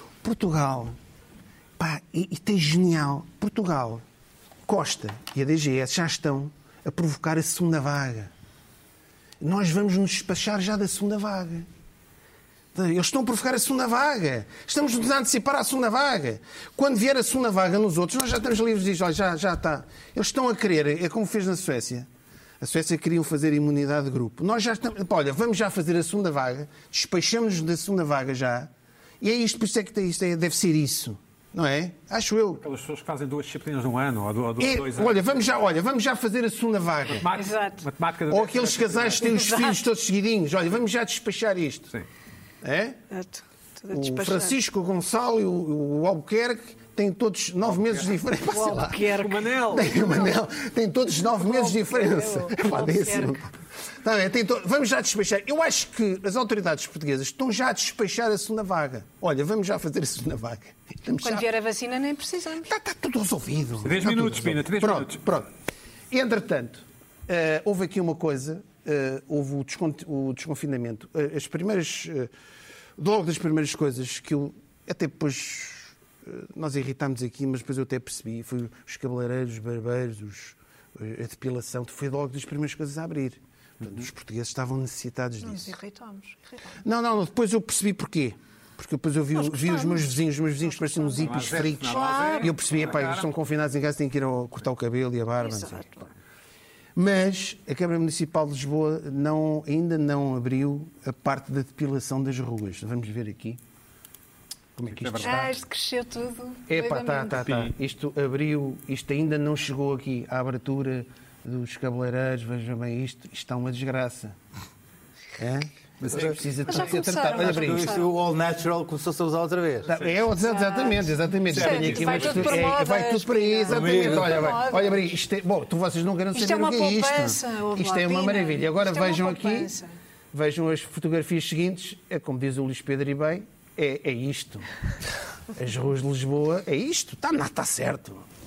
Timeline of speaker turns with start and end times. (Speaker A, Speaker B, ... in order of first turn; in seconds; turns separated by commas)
Speaker A: 0.2-0.9, Speaker A: 1.8-4.0, Speaker A: 4.7-8.3, Speaker A: 9.4-11.7, Speaker A: 12.7-22.1, Speaker A: 22.6-32.6, Speaker B: 32.5-35.4, Speaker A: 34.6-37.3, Speaker B: 37.1-39.3, Speaker C: 37.3-37.8, Speaker A: 38.3-41.9, Speaker C: 39.3-39.7, Speaker A: 42.6-43.0, Speaker C: 43.1-44.5, Speaker A: 43.9-61.5, Speaker C: 48.5-50.3, Speaker B: 49.2-50.1, Speaker C: 51.4-53.4, Speaker C: 61.2-62.7, Speaker A: 62.6-65.5, Speaker B: 63.8-65.2, Speaker A: 66.1-72.3, Speaker A: 73.0-85.7, Speaker C: 85.4-86.7, Speaker A: 86.8-96.1, Speaker C: 89.4-90.1, Speaker C: 90.8-92.5, Speaker B: 91.2-93.3, Speaker C: 95.4-96.0, Speaker A: 96.9-103.6, Speaker A: 104.8-105.5, Speaker B: 104.8-105.5, Speaker C: 105.2-107.5, Speaker A: 106.7-114.4, Speaker B: 107.4-107.7, Speaker A: 115.4-118.0, Speaker B: 116.0-116.4, Speaker C: 116.7-118.0, Speaker D: 117.2-119.9, Speaker A: 119.8-129.7, Speaker C: 120.4-125.0, Speaker B: 121.5-122.7, Speaker D: 123.7-124.5, Speaker C: 126.3-129.9, Speaker A: 130.3-134.7, Speaker A: 135.5-138.2